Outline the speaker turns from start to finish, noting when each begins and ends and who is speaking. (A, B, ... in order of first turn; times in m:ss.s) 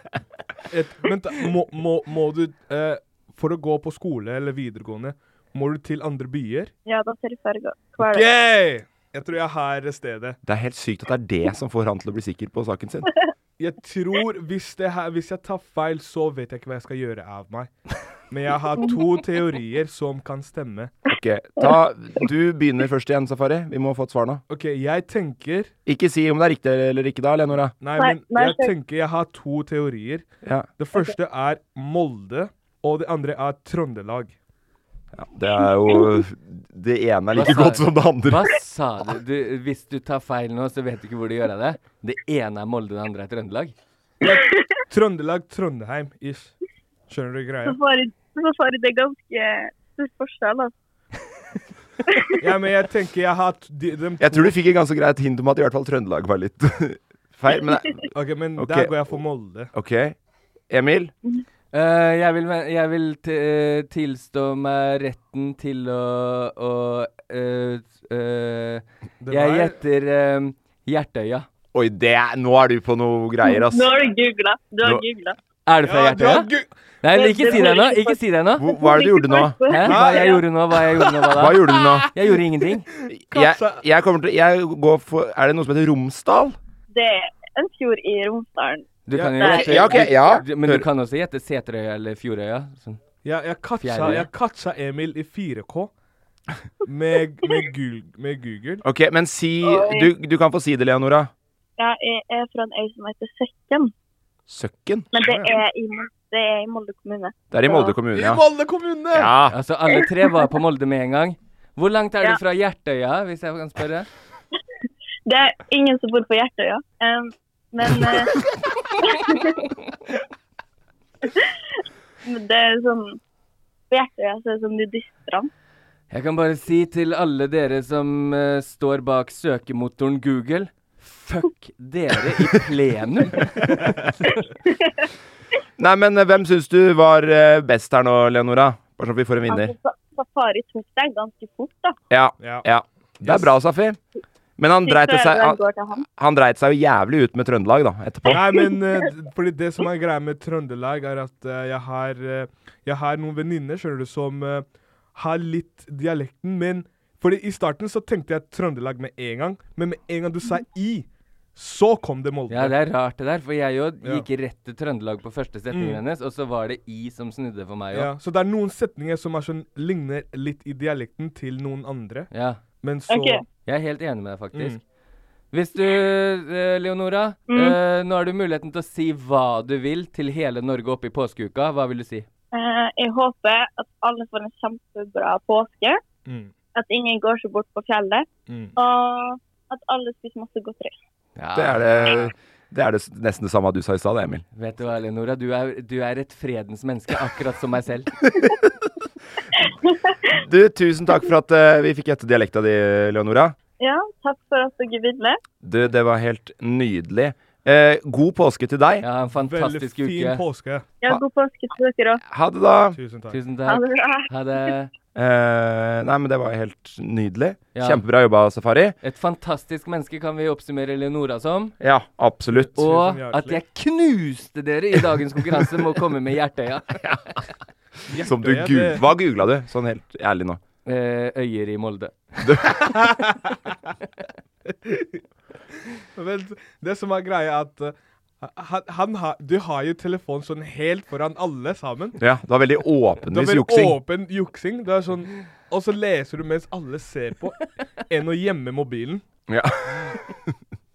0:00.7-0:06.7 A
0:06.9-0:08.3 B
0:08.0-0:10.4 A
0:10.4-0:13.1 C
0:13.6-0:17.7 A
0:18.3-0:20.9 A
0:21.1-0:24.4 C
0:24.5-0:25.7 A
0:25.9-0:27.7 C
0:27.8-0:30.3 A
0:28.0-0:28.7 B
0:30.8-0:34.4 A
0:35.1-0:38.5 C
0:35.6-0:36.2 B
0:37.3-0:43.7 D
0:44.2-0:46.5 A
0:47.1-0:47.8 A
0:47.6-0:50.7 B
0:52.4-0:54.5 A
0:54.2-0:59.1 C
0:58.1-0:59.7 A
0:59.7-1:00.2 C
1:00.7-1:01.1 C
1:01.7-1:11.5 D
1:09.2-1:09.8 A
1:11.7-1:13.9 C
1:13.4-1:15.4 B
1:15.7-1:16.5 D
1:15.8-1:16.7 A
1:17.0-1:18.7 D
1:17.1-1:20.4 B
1:18.6-1:19.6 C
1:19.7-1:22.9 D
1:19.8-1:21.3 A
1:21.3-1:22.1 C
1:22.9-1:23.8 A
1:23.1-1:26.6 C
1:26.9-1:30.4 B
1:29.1-1:33.0 D
1:29.1-1:29.6 A
1:29.4-1:30.8 C
1:33.2-1:35.9 A
1:33.8-1:34.3 D
1:36.8-1:38.8 A
1:38.8-1:41.3 C
1:39.6-1:40.1 B
1:41.8-1:43.9 B
1:44.5-1:45.1 C
1:45.1-1:48.0 B
1:45.1-1:45.6 A
1:47.5-1:48.4 C
1:48.1-1:49.4 A
1:49.1-1:49.6 C
1:49.5-1:54.1 D
1:55.3-1:58.3 B
1:59.0-1:59.7 B
2:02.2-2:03.2 B
2:03.9-2:05.5 B
2:06.1-2:14.4 D
2:13.6-2:14.1 A
2:15.8-2:19.7 C
2:19.5-2:22.0 B
2:22.1-2:24.0 C
2:22.4-2:22.7 A
2:23.2-2:23.5 A
2:24.6-2:28.5 C
2:24.8-2:26.0 B
2:28.3-2:42.8 A
2:42.5-2:48.1 D
2:45.7-2:46.0 A
2:47.9-2:52.3 A
2:52.3-2:52.6 D
2:52.8-2:53.4 A
2:53.1-2:53.4 B
2:53.7-2:54.8 D
2:54.5-2:54.8 A
2:55.5-3:02.3 D
2:57.5-2:57.8 B
3:02.5-3:06.0 B
3:06.3-3:06.5 A
3:06.8-3:10.9 B
3:08.5-3:08.8 A
3:11.4-3:12.3 D
3:11.6-3:14.4 C
3:14.5-3:18.1 D
3:19.6-3:20.4 B
3:20.3-3:23.6 C
3:23.8-3:25.4 B
3:25.6-3:29.0 C
3:29.0-3:30.4 D
3:29.4-3:31.1 A
3:31.0-3:32.2 B
3:32.2-3:33.0 C
3:32.9-3:33.4 A
3:33.3-3:34.9 D
3:33.7-3:34.3 B
3:35.2-3:39.0 C
3:37.8-3:38.0 D
3:39.0-3:41.8 D
3:41.8-3:42.8 C
3:42.6-3:43.6 A
3:42.8-3:47.0 D
3:48.1-3:49.0 A
3:48.2-3:50.6 C
3:50.9-3:52.5 D
3:52.4-3:52.8 C
3:52.9-3:53.3 A
3:54.7-3:55.2 A
3:56.2-4:02.2 A
4:02.2-4:04.0 C
4:03.3-4:09.2 A
4:09.5-4:10.6 C